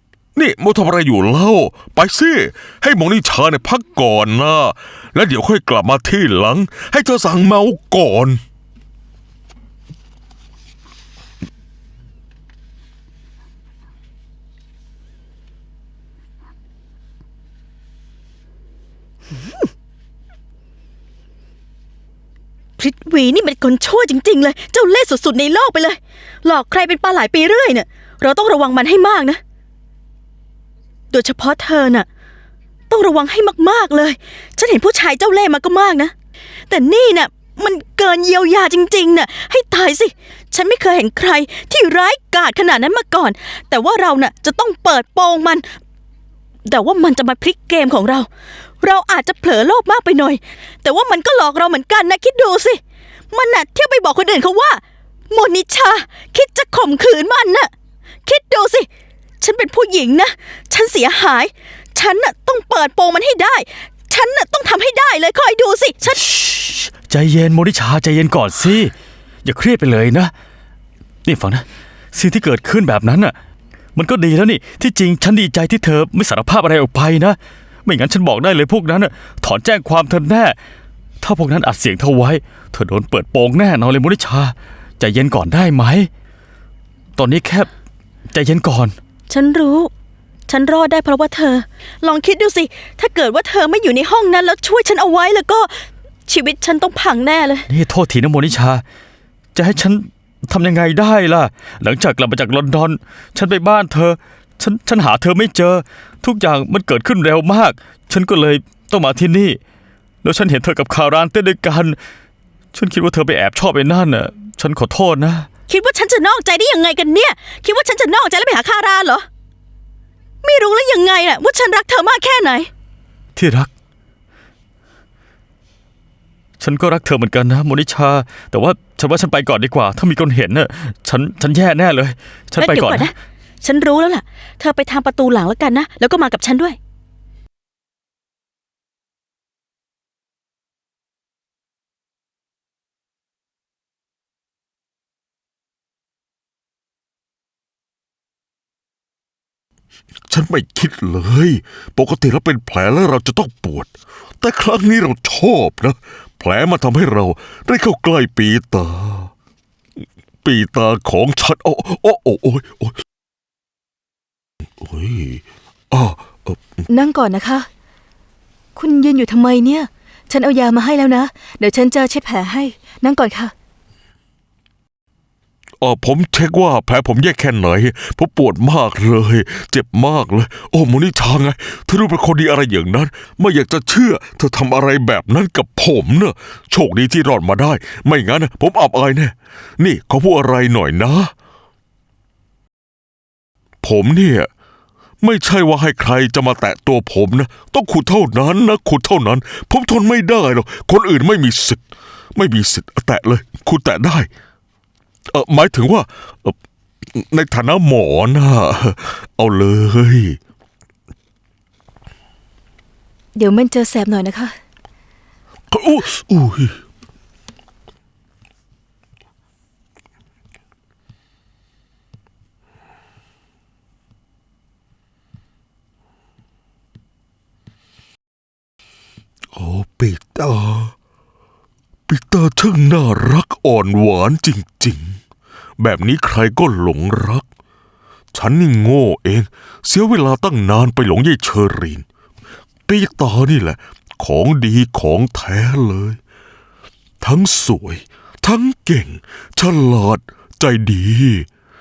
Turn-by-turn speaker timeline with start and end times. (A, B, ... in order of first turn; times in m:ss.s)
0:00.4-0:08.4 A
0:22.8-0:29.4 B
0:31.1-0:32.1 B
0:32.9-0:36.1 B
0:36.7-0:45.6 B
0:46.6-0:48.3 B
0:48.8-0:52.8 B
0:53.3-0:57.7 B
0:58.2-0:58.9 B
0:59.4-1:06.2 B
1:06.2-1:08.9 C
1:09.4-1:10.3 C
1:11.2-1:13.4 C
1:14.0-1:20.6 C
1:21.2-1:26.1 C
1:27.2-1:27.7 C
1:28.3-1:29.0 C
1:29.3-1:29.9 B
1:30.5-1:37.7 B
1:37.7-1:38.8 C
1:39.5-1:49.6 C
1:50.2-1:52.0 C
1:52.7-1:55.5 C
1:55.7-1:59.2 B
2:00.4-2:02.7 B
2:03.4-2:03.7 C
2:06.6-2:13.1 C
2:12.6-2:16.8 B
2:30.3-2:39.3 A
2:40.4-2:43.0 A
2:44.8-2:46.8 A
2:46.9-2:47.7 D
2:48.8-2:53.5 D
2:55.8-3:11.3 A
3:13.8-3:14.5 A
3:15.2-3:21.8 A
3:22.4-3:24.3 A
3:25.3-3:26.6 A
3:27.1-3:30.4 A
3:33.4-3:34.6 D
3:35.7-3:36.8 A
3:49.5-3:50.9 A
3:52.1-3:55.2 A
3:55.8-3:57.5 A
3:58.3-4:02.0 A
4:02.9-4:06.2 A
4:07.2-4:11.5 A